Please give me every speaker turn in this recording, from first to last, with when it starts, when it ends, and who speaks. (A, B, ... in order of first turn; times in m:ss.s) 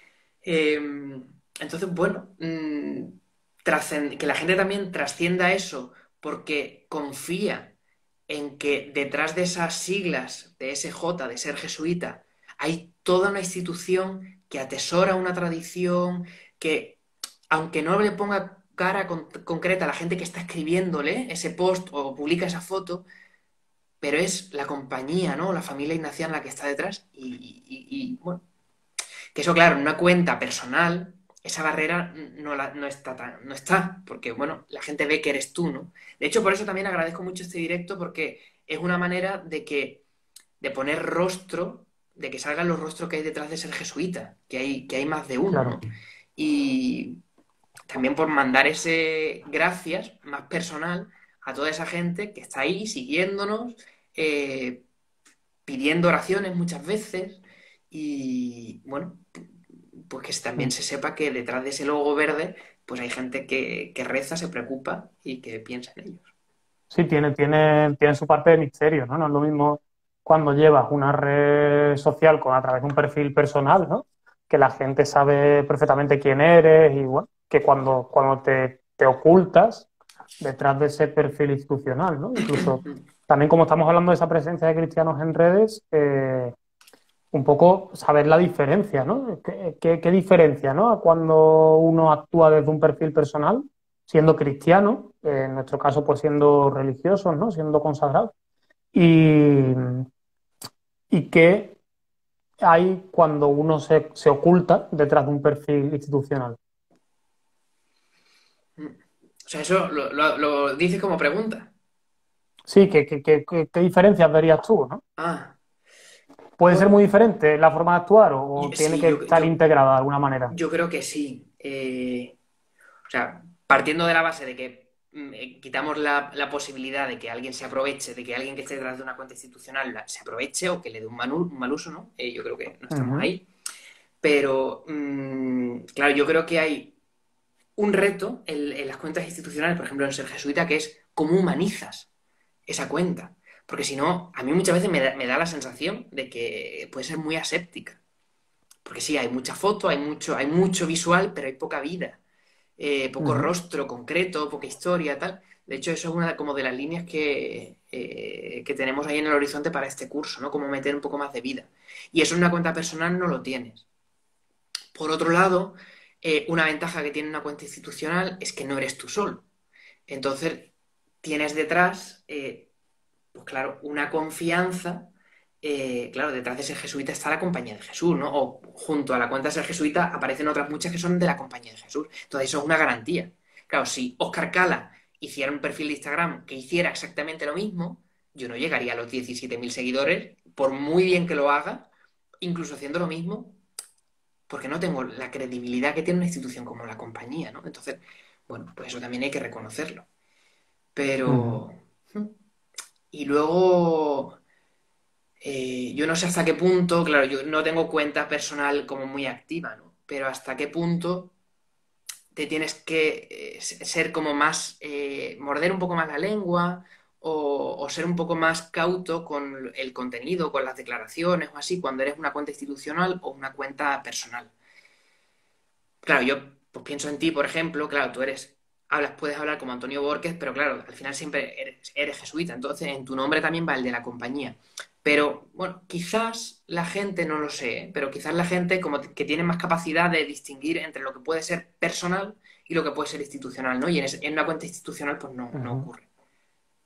0:00.4-0:07.8 A
0:08.3-0:23.0 A
0:24.0-0:28.4 A
0:29.3-0:40.0 A
0:40.6-0:45.8 A
0:45.5-0:45.8 B
0:46.4-0:47.2 A
0:47.9-0:54.8 A
0:55.6-0:59.3 A
1:00.0-1:06.3 A
1:06.9-1:19.9 B
1:20.4-1:26.5 B
1:22.5-1:22.9 A
1:27.3-1:38.3 B
1:38.9-1:40.0 B
1:41.1-1:41.8 B
1:42.6-1:46.6 B
1:48.8-1:51.7 A
1:52.7-1:55.0 B
1:55.2-1:55.6 A
1:56.6-2:00.6 B
1:58.6-1:59.5 A
2:00.5-2:02.4 A
2:03.1-2:13.4 A
2:12.9-2:13.3 B
2:14.2-2:17.0 A
2:17.8-2:22.1 A
2:22.7-2:28.0 A
2:28.8-2:32.2 A
2:32.8-2:43.8 A
2:33.2-2:33.5 B
2:44.9-2:49.4 A
2:50.1-2:50.7 A
2:51.2-2:52.7 A
2:53.3-3:13.6 A
3:14.5-3:20.1 A
3:20.9-3:22.4 A
3:21.3-3:21.6 B
3:23.1-3:24.4 A
3:25.4-3:31.3 A
3:32.3-3:44.5 A
3:46.0-4:06.1 A
4:05.5-4:05.9 B